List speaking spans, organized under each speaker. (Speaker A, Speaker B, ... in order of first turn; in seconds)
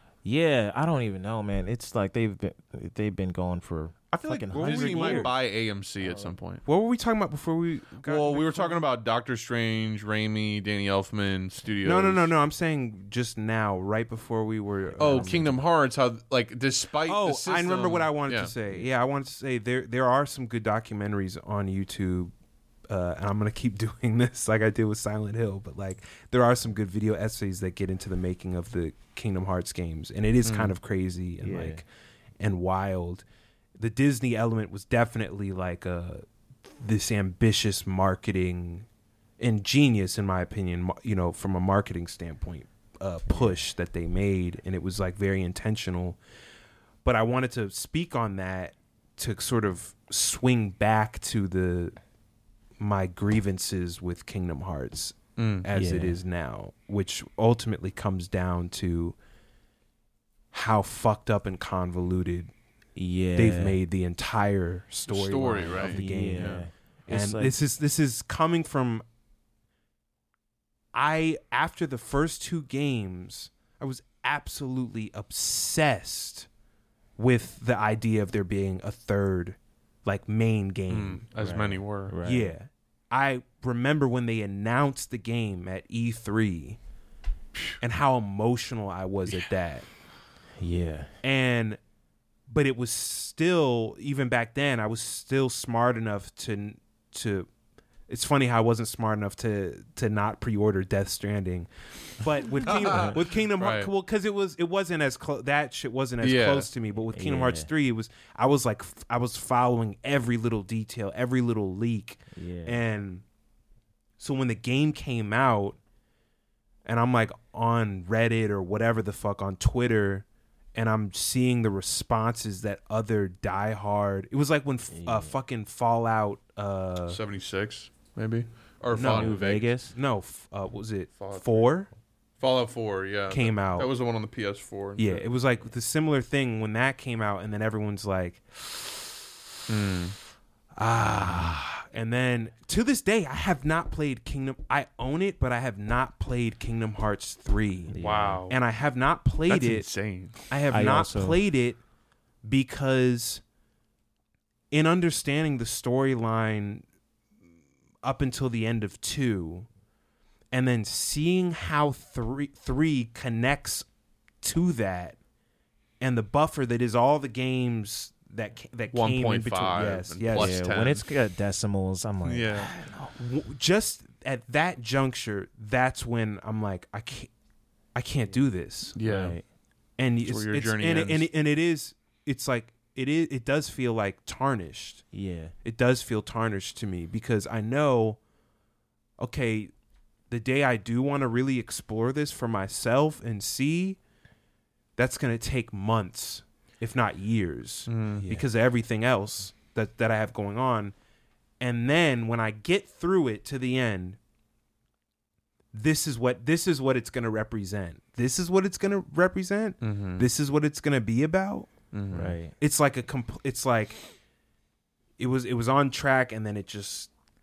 Speaker A: 0.2-5.3, 6.0-6.3, 31.4-31.8, 55.7-56.2, 63.0-63.8, 65.8-67.6, 81.4-82.5, 90.6-91.1, 102.8-103.2, 107.1-107.7, 112.3-112.8, 124.9-125.4, 128.9-129.9, 147.9-148.4, 150.7-151.4, 170.3-172.7, 179.0-179.4, 185.1-185.5, 212.1-212.5
Speaker B: 4.1-6.6, 8.0-12.3, 15.0-18.5, 30.4-30.7, 55.4-55.7, 65.1-66.6, 80.9-82.1, 102.7-103.9, 106.2-106.7, 127.1-129.8, 131.2-131.8, 132.4-135.2, 139.7-140.2, 148.0-148.6, 149.5-150.4, 168.9-171.0, 172.2-172.7, 178.9-179.4, 180.2-181.3, 197.9-198.2, 209.8-210.3, 211.9-212.4
Speaker C: 4.5-5.3, 6.6-8.8, 11.8-15.6, 17.0-22.3, 22.9-31.8, 32.4-33.2, 33.8-36.2, 36.8-38.9, 39.4-46.2, 47.0-52.0, 52.8-59.1, 60.5-62.5, 63.3-69.0, 70.9-76.5, 77.2-81.2, 82.2-86.8, 87.8-89.9, 91.2-91.8, 92.5-97.5, 98.1-113.2, 114.2-115.8, 116.8-127.2, 128.9-131.9, 133.3-133.9, 135.0-138.7, 140.8-149.9, 150.5-151.8, 152.4-153.4, 154.7-156.8, 158.0-159.7, 160.5-163.8, 164.4-165.2, 166.0-170.6, 173.1-177.3, 177.9-178.9, 180.0-185.0, 185.6-188.2, 189.2-189.7, 190.3-194.0, 195.0-200.9, 201.6-204.2, 205.7-211.7, 212.6-214.0, 215.2-217.1